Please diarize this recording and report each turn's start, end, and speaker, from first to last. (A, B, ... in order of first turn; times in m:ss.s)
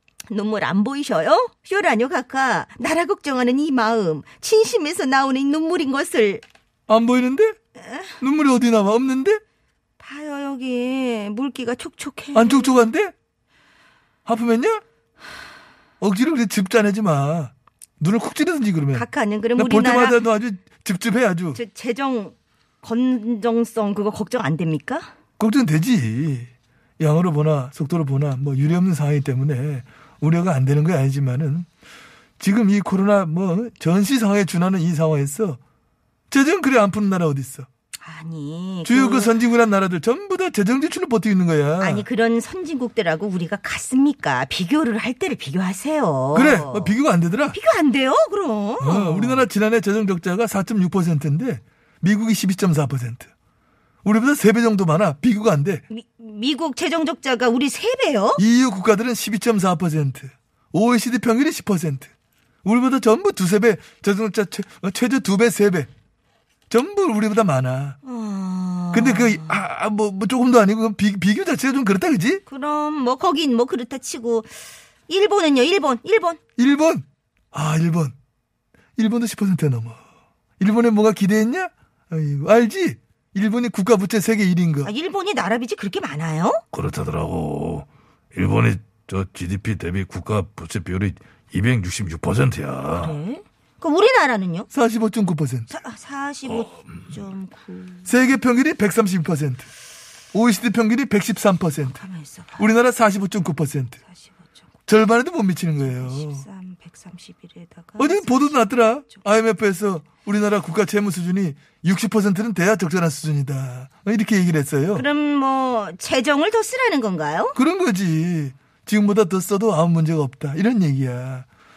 0:00.3-0:06.4 A
0:06.9-0:07.6 B
0:07.8-0:08.2 A
0:08.2-0:09.4 B
0:10.0-0:12.8 A
0:12.3-0:13.1 B
0:14.3-0:14.8 B
0:16.0-0:21.6 B
0:18.9-0:20.2 A
0:21.5-0:25.1 A
0:25.4-0:26.5 B
0:27.0-0:31.7 B
0:32.4-0:35.6 B
0:36.3-0:37.7 B
0:38.0-0:39.3 A
0:38.8-0:42.0 B
0:41.8-0:47.0 A
0:46.3-0:47.6 B
0:47.5-0:49.5 A
0:48.8-0:53.3 B
0:54.0-0:55.8 B
0:55.9-0:58.4 A
0:58.4-1:02.1 B
1:02.6-1:05.9 B
1:06.7-1:08.0 B
1:08.0-1:09.6 A
1:08.9-1:12.4 B
1:12.5-1:14.5 A
1:15.1-1:16.4 A
1:16.6-1:18.1 B
1:19.0-1:20.0 B
1:20.6-1:24.9 B
1:24.8-1:26.6 A
1:26.7-1:33.2 C
1:33.0-1:34.7 A
1:34.7-1:35.7 B
1:35.7-1:38.1 A
1:38.1-1:39.7 B
1:40.3-1:42.0 B
1:41.9-1:42.7 A
1:42.6-1:44.0 B
1:44.1-1:44.4 A
1:44.9-1:46.4 B
1:45.8-1:49.2 A
1:48.0-1:55.1 B
1:55.0-1:57.6 A
1:57.6-2:01.5 B